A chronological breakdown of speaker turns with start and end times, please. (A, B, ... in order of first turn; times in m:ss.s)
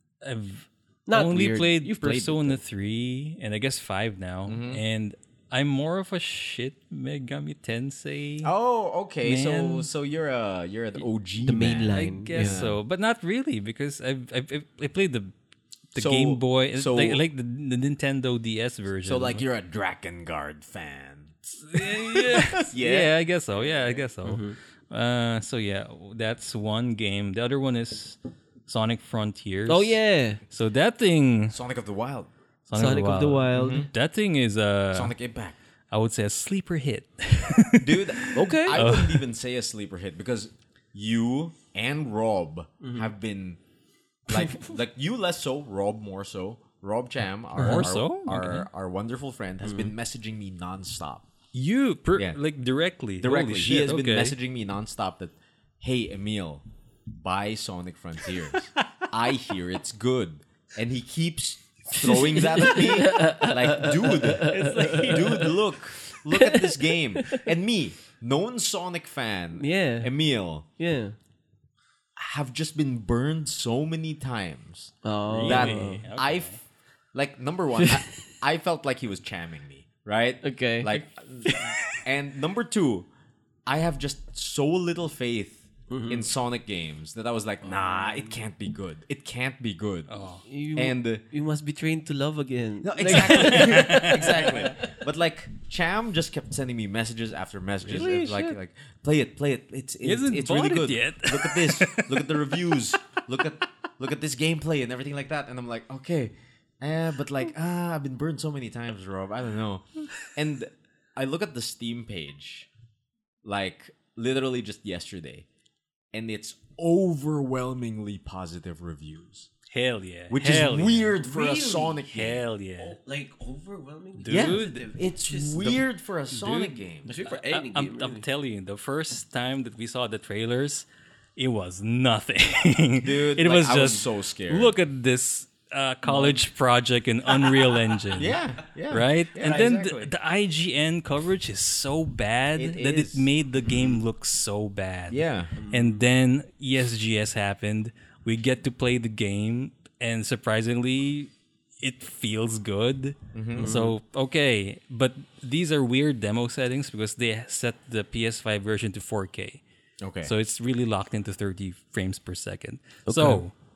0:00.2-0:08.5 A
0:01.1-0:02.4 B
0:04.5-0:04.8 C
0:08.4-0:12.8 C
0:09.2-0:09.9 A
0:11.4-0:12.6 B
0:11.7-0:15.3 A
0:15.9-0:19.4 A
0:16.0-0:17.2 C
0:19.0-0:24.0 C
0:21.6-0:30.0 A
0:24.2-0:24.6 B
0:29.7-0:30.4 B
0:30.5-0:31.6 A
0:31.5-0:32.3 C
0:32.7-0:35.1 A
0:32.7-0:33.9 B
0:33.5-0:33.9 C
0:34.9-0:35.6 C
0:35.9-0:39.2 A
0:37.8-0:43.6 C
0:38.4-0:38.8 B
0:42.8-0:43.1 B
0:44.3-0:51.3 C
0:47.6-0:48.7 A
0:49.6-0:49.9 B
0:51.5-0:54.4 A
0:53.2-1:10.7 C
1:01.9-1:05.6 B
1:04.7-1:05.0 A
1:06.2-1:07.5 B
1:09.6-1:10.1 B
1:10.8-1:11.2 B
1:12.2-1:16.6 C
1:15.0-1:16.0 B
1:15.3-1:16.6 A
1:17.1-1:23.1 C
1:20.4-1:22.0 B
1:23.7-1:30.1 C
1:25.9-1:26.3 B
1:27.6-1:28.4 B
1:30.1-1:30.4 A
1:30.4-1:34.9 B
1:30.8-1:31.2 C
1:32.8-1:52.7 C
1:33.1-1:34.4 A
1:37.8-1:38.5 A
1:38.0-1:38.5 B
1:40.0-1:42.4 A
1:53.4-1:55.5 C
1:56.1-1:59.5 C
1:59.7-2:01.2 A
2:00.3-2:02.4 C
2:01.2-2:02.0 B
2:02.0-2:03.0 A
2:02.8-2:05.8 B
2:04.2-2:04.8 A
2:04.3-2:07.1 C
2:06.3-2:10.9 A
2:07.0-2:08.2 B
2:11.4-2:18.4 A
2:13.0-2:14.8 C
2:16.0-2:16.4 B
2:17.3-2:18.2 B
2:18.2-2:20.1 C
2:18.9-2:39.6 A
2:22.6-2:23.3 C
2:25.1-2:25.6 C
2:25.6-2:26.0 B
2:33.3-2:33.7 C
2:33.6-2:34.0 B
2:40.0-2:40.3 C
2:40.2-2:43.5 A
2:43.1-2:43.4 B